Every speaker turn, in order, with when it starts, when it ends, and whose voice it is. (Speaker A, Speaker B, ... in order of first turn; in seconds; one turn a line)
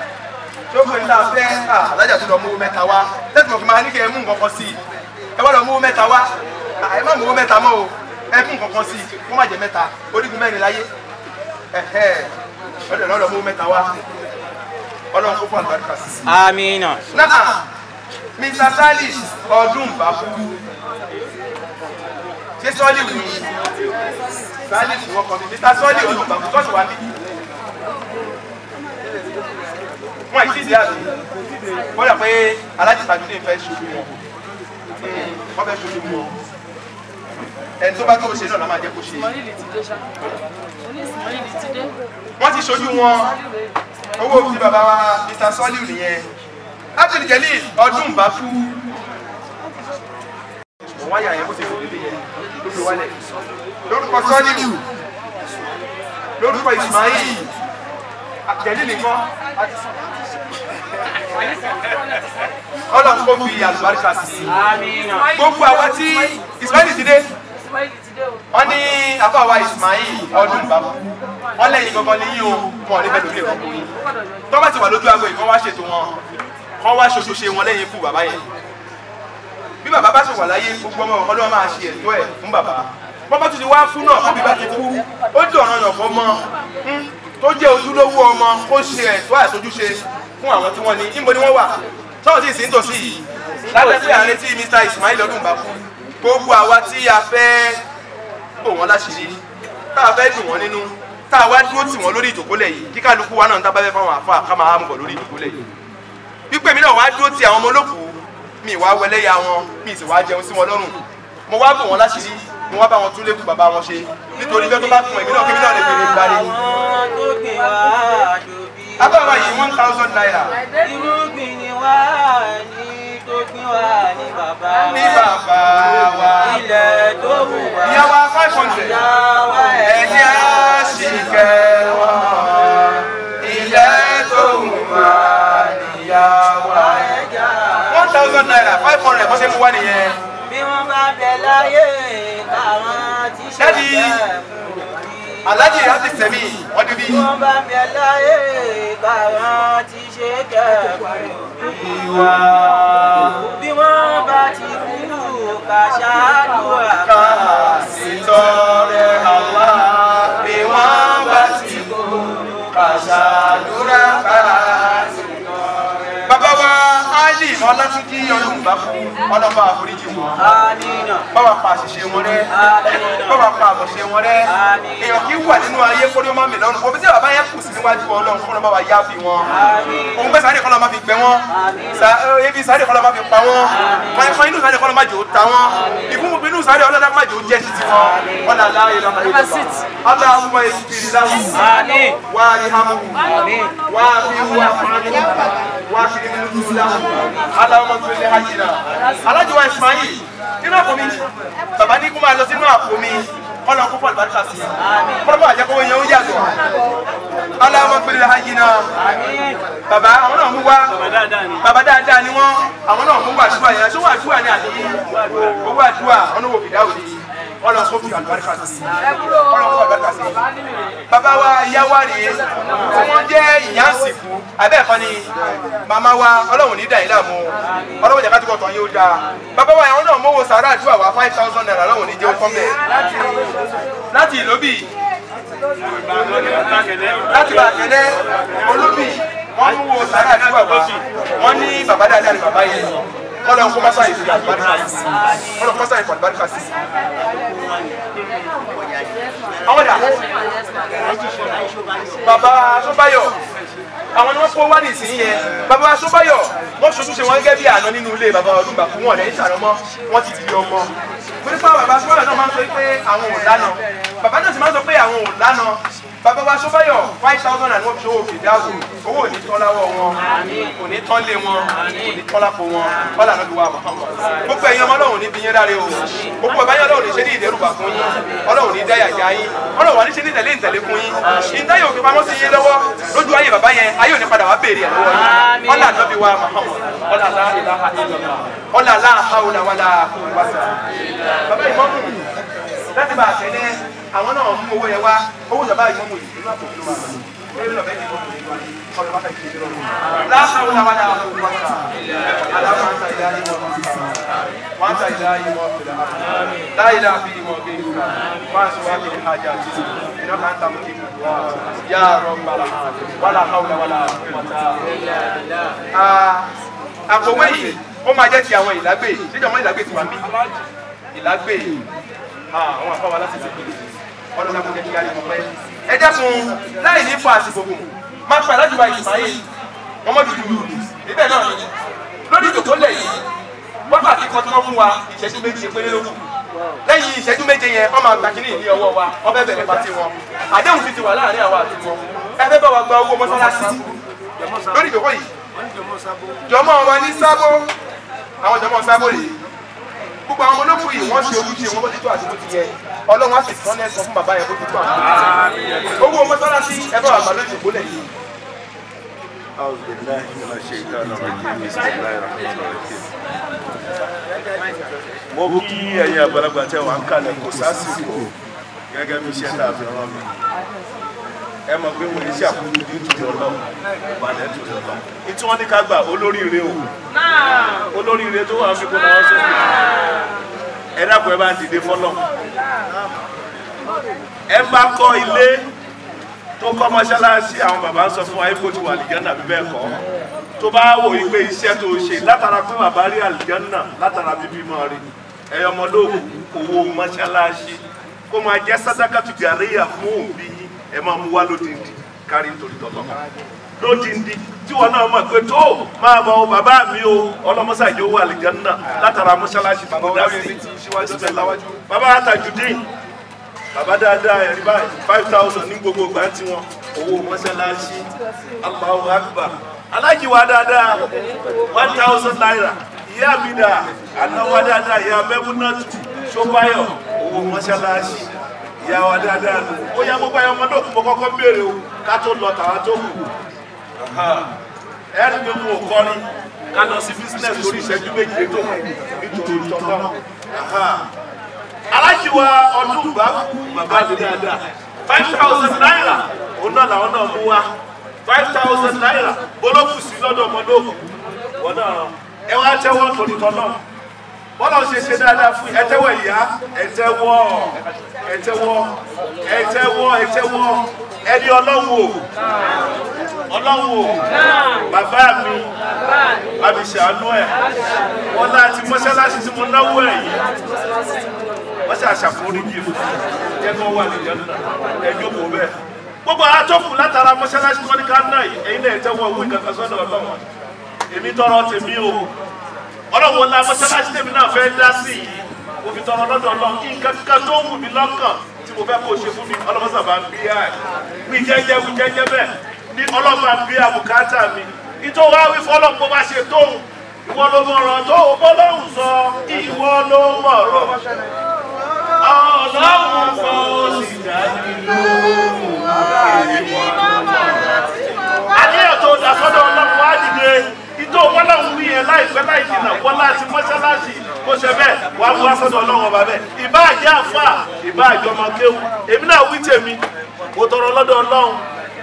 Speaker A: 0.7-4.8
Speaker A: 5.4-10.9
Speaker A: 11.7-12.3
Speaker A: 12.9-13.9
Speaker A: 15.1-16.3
Speaker B: 16.3-17.0
Speaker A: 17.1-17.6
Speaker A: 18.4-20.6
Speaker A: 22.6-23.5
Speaker A: 24.7-27.1
Speaker A: 30.3-31.1
Speaker A: 32.0-34.1
Speaker A: 35.0-36.3
Speaker A: 37.8-39.4
Speaker A: 42.4-43.4
Speaker A: 44.2-46.3
Speaker A: 47.0-48.8
Speaker A: 51.0-53.2
Speaker A: 53.9-54.8
Speaker A: 56.4-57.5
Speaker A: 58.5-59.8
Speaker A: 62.9-64.5
Speaker B: 64.5-65.3
Speaker A: 65.3-67.3
Speaker A: 68.5-71.0
Speaker A: 71.6-73.9
Speaker A: 74.5-76.1
Speaker A: 76.8-78.4
Speaker A: 79.8-97.8
Speaker A: 98.6-99.4
Speaker A: 100.0-105.6
Speaker A: 106.5-116.5
Speaker B: 114.4-119.6
Speaker A: 119.0-120.6
Speaker B: 120.8-125.3
Speaker A: 124.9-126.6
Speaker B: 126.4-131.2
Speaker A: 127.8-129.0
Speaker A: 129.8-137.1
Speaker B: 134.6-135.5
Speaker B: 136.8-139.1
Speaker A: 137.9-140.2
Speaker B: 140.5-146.1
Speaker A: 143.6-144.2
Speaker A: 145.4-147.2
Speaker B: 147.1-152.3
Speaker A: 151.8-153.3
Speaker B: 153.3-157.5
Speaker A: 157.1-161.9
Speaker B: 160.6-163.0
Speaker A: 162.7-165.1
Speaker B: 164.7-166.3
Speaker A: 166.3-170.4
Speaker B: 170.4-171.3
Speaker A: 171.3-172.5
Speaker B: 172.5-173.5
Speaker A: 173.3-179.5
Speaker B: 174.5-175.3
Speaker B: 179.5-180.4
Speaker A: 180.2-191.6
Speaker B: 181.5-182.1
Speaker B: 183.7-184.4
Speaker B: 185.8-186.3
Speaker B: 187.9-188.7
Speaker B: 191.5-192.2
Speaker A: 192.3-193.3
Speaker B: 193.3-193.8
Speaker A: 193.9-201.2
Speaker A: 201.8-206.5
Speaker B: 204.8-205.4
Speaker A: 207.6-208.9
Speaker B: 208.9-209.6
Speaker A: 209.9-211.0
Speaker C: 211.2-211.5
Speaker A: 211.6-220.4
Speaker C: 215.2-215.5
Speaker A: 221.1-225.3
Speaker A: 225.8-232.9
Speaker B: 227.6-228.2
Speaker A: 234.1-234.9
Speaker A: 236.1-246.7
Speaker C: 236.1-237.3
Speaker B: 245.1-245.6
Speaker A: 248.2-248.6
Speaker A: 249.6-250.1
Speaker A: 252.1-253.4
Speaker A: 254.1-270.2
Speaker B: 270.3-270.8
Speaker A: 270.8-290.8
Speaker B: 271.7-272.2
Speaker B: 285.1-286.1
Speaker A: 291.5-292.2
Speaker A: 292.9-304.2
Speaker A: 304.8-314.8
Speaker B: 315.1-315.8
Speaker A: 315.9-316.5
Speaker A: 317.1-320.3
Speaker A: 321.1-321.8
Speaker A: 322.5-329.4
Speaker A: 330.1-331.6
Speaker A: 332.3-333.2
Speaker A: 333.9-336.2
Speaker A: 336.9-343.9
Speaker C: 343.3-344.9
Speaker A: 344.7-345.3
Speaker C: 345.6-346.4
Speaker A: 346.5-347.7
Speaker A: 348.4-349.4
Speaker A: 350.3-355.3
Speaker C: 355.0-356.2
Speaker A: 356.0-358.1
Speaker C: 359.6-363.1
Speaker C: 365.3-368.3
Speaker C: 368.9-370.3
Speaker C: 371.7-376.9
Speaker C: 377.9-379.9
Speaker C: 381.0-382.2
Speaker C: 384.5-385.7
Speaker C: 386.6-390.0
Speaker C: 390.6-403.2
Speaker C: 403.8-412.9
Speaker A: 409.9-411.8
Speaker C: 413.7-418.1
Speaker C: 418.6-421.1
Speaker C: 421.7-428.3
Speaker C: 428.8-433.3
Speaker C: 434.0-434.6
Speaker C: 435.1-441.1
Speaker C: 441.9-447.7
Speaker C: 448.2-451.0
Speaker C: 451.6-453.8
Speaker C: 454.6-462.3
Speaker C: 463.5-464.4
Speaker C: 464.9-465.7
Speaker C: 466.6-467.6
Speaker C: 468.3-470.5
Speaker C: 471.9-480.4
Speaker C: 481.1-482.3
Speaker C: 483.1-501.0
Speaker C: 502.2-507.8
Speaker C: 508.5-520.0
Speaker C: 520.5-521.7